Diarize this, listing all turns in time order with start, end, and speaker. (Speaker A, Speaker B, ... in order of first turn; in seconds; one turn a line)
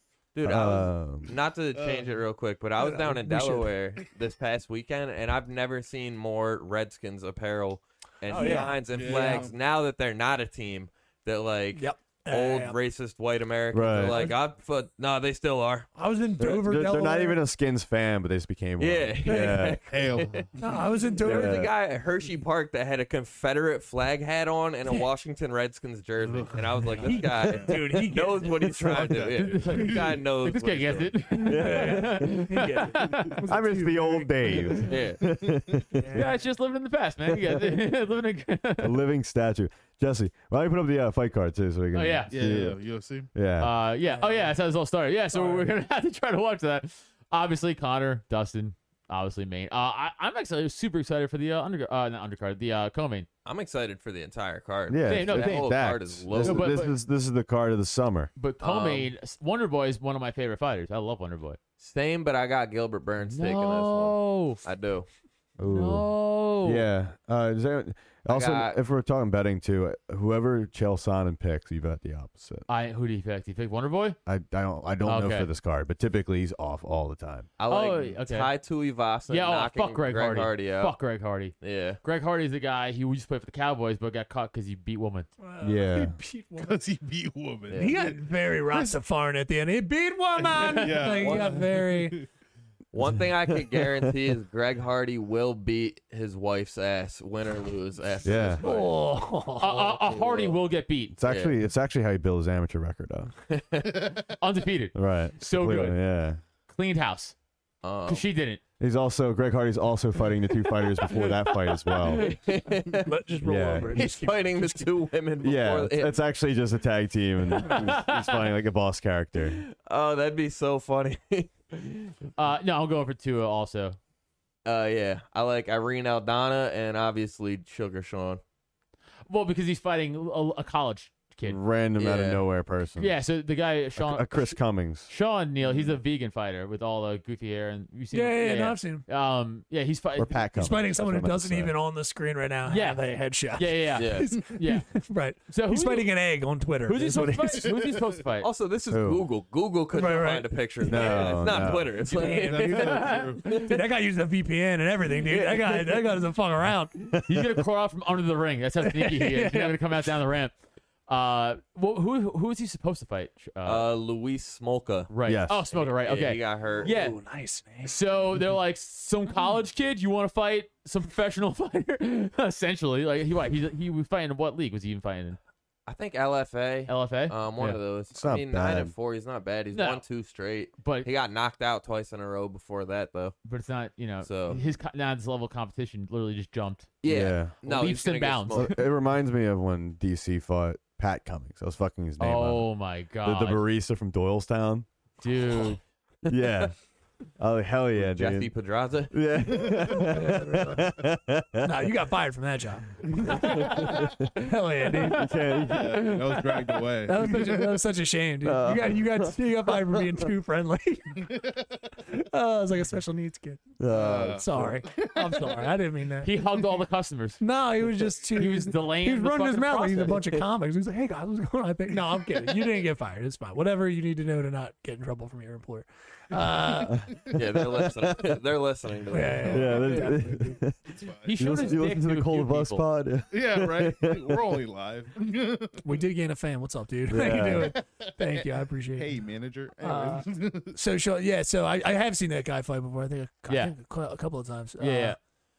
Speaker A: 0.3-15.9
Speaker B: 0.4-1.3
Speaker C: 1.8-2.1
Speaker D: 2.8-3.7
Speaker D: 8.3-9.4
Speaker C: 8.4-9.5
Speaker D: 11.7-12.8
Speaker B: 13.7-14.3
Speaker D: 14.1-14.3
Speaker D: 15.9-17.4
Speaker B: 16.4-19.8
Speaker A: 18.8-20.4
Speaker C: 19.9-20.9
Speaker D: 20.6-21.7
Speaker A: 21.2-31.2
Speaker B: 21.2-21.7
Speaker C: 26.3-27.9
Speaker D: 26.5-29.1
Speaker C: 28.8-30.1
Speaker E: 29.4-33.4
Speaker D: 31.4-34.9
Speaker B: 31.4-32.4
Speaker B: 33.5-36.2
Speaker A: 34.9-35.2
Speaker D: 36.0-36.3
Speaker E: 36.1-39.0
Speaker B: 38.8-42.8
Speaker E: 41.9-42.3
Speaker C: 42.3-43.3
Speaker B: 43.3-43.8
Speaker E: 43.6-53.3
Speaker D: 44.0-44.5
Speaker D: 45.3-45.7
Speaker A: 53.4-56.8
Speaker B: 54.9-58.3
Speaker E: 55.0-56.9
Speaker E: 58.4-61.6
Speaker A: 58.6-59.1
Speaker A: 61.8-65.1
Speaker E: 63.3-64.6
Speaker B: 65.6-72.7
Speaker E: 65.7-66.8
Speaker A: 68.3-68.8
Speaker E: 72.7-74.2
Speaker B: 74.2-77.5
Speaker E: 75.0-75.5
Speaker A: 77.6-80.9
Speaker E: 77.7-78.5
Speaker E: 79.3-85.3
Speaker A: 81.6-82.0
Speaker D: 85.4-86.8
Speaker B: 85.6-86.2
Speaker C: 86.6-89.0
Speaker D: 87.7-92.2
Speaker C: 90.4-92.3
Speaker A: 91.1-91.5
Speaker A: 92.9-99.0
Speaker B: 93.6-94.0
Speaker B: 98.2-98.6
Speaker D: 98.6-100.0
Speaker E: 99.6-101.1
Speaker A: 100.1-100.5
Speaker B: 101.1-103.3
Speaker A: 101.2-101.5
Speaker A: 103.5-104.1
Speaker E: 104.4-106.0
Speaker B: 104.9-106.4
Speaker E: 106.7-107.3
Speaker A: 107.8-108.2
Speaker E: 108.1-108.6
Speaker B: 108.8-112.3
Speaker E: 111.0-112.3
Speaker A: 112.1-113.1
Speaker D: 113.0-114.9
Speaker B: 113.4-114.0
Speaker A: 113.9-116.2
Speaker B: 115.4-119.6
Speaker E: 117.6-118.4
Speaker A: 119.8-122.1
Speaker E: 122.3-124.0
Speaker A: 124.6-128.4
Speaker E: 129.3-131.6
Speaker B: 131.4-133.2
Speaker A: 132.0-132.4
Speaker E: 133.0-140.4
Speaker B: 133.9-135.1
Speaker D: 138.1-139.0
Speaker B: 140.2-141.7
Speaker D: 140.5-147.7
Speaker E: 142.7-144.9
Speaker A: 144.0-144.3
Speaker E: 145.5-146.1
Speaker E: 146.8-148.5
Speaker C: 147.4-148.0
Speaker A: 148.4-153.7
Speaker B: 148.9-149.2
Speaker D: 149.9-151.3
Speaker B: 150.8-151.9
Speaker C: 151.4-153.7
Speaker D: 152.1-157.1
Speaker E: 152.9-153.3
Speaker A: 155.2-156.0
Speaker B: 157.1-157.6
Speaker E: 157.3-160.5
Speaker D: 158.8-160.1
Speaker E: 161.1-163.9
Speaker A: 163.6-165.1
Speaker E: 165.1-167.2
Speaker B: 165.2-165.6
Speaker A: 165.7-166.9
Speaker D: 166.8-167.9
Speaker E: 167.8-175.4
Speaker A: 175.9-183.3
Speaker E: 176.9-177.8
Speaker B: 178.1-178.9
Speaker E: 179.7-180.0
Speaker E: 180.8-181.1
Speaker E: 183.4-186.9
Speaker A: 184.2-184.6
Speaker A: 187.0-188.8
Speaker B: 187.0-187.5
Speaker E: 187.6-188.8
Speaker B: 188.5-192.7
Speaker E: 192.2-193.6
Speaker B: 193.2-194.9
Speaker E: 195.2-195.8
Speaker B: 196.3-196.8
Speaker B: 197.3-198.5
Speaker A: 198.0-199.2
Speaker B: 199.1-201.8
Speaker D: 199.9-200.9
Speaker D: 201.6-205.3
Speaker B: 203.3-204.2
Speaker E: 204.9-206.8
Speaker B: 205.1-206.1
Speaker C: 205.7-207.8
Speaker D: 207.0-211.3
Speaker B: 208.4-210.2
Speaker C: 211.2-211.8
Speaker D: 212.1-216.3
Speaker B: 213.8-214.7
Speaker C: 213.9-215.8
Speaker E: 216.2-217.4
Speaker D: 217.4-227.1
Speaker E: 218.3-220.2
Speaker C: 226.4-226.9
Speaker B: 226.8-228.2
Speaker A: 227.3-229.8
Speaker D: 229.1-230.6
Speaker C: 229.2-230.3
Speaker B: 229.5-230.8
Speaker C: 230.8-231.8
Speaker E: 231.2-232.8
Speaker B: 231.3-234.6
Speaker C: 233.3-236.0
Speaker D: 235.8-239.2
Speaker B: 237.1-237.7
Speaker C: 237.5-240.8
Speaker D: 239.8-245.2
Speaker E: 243.5-243.8
Speaker E: 244.8-245.2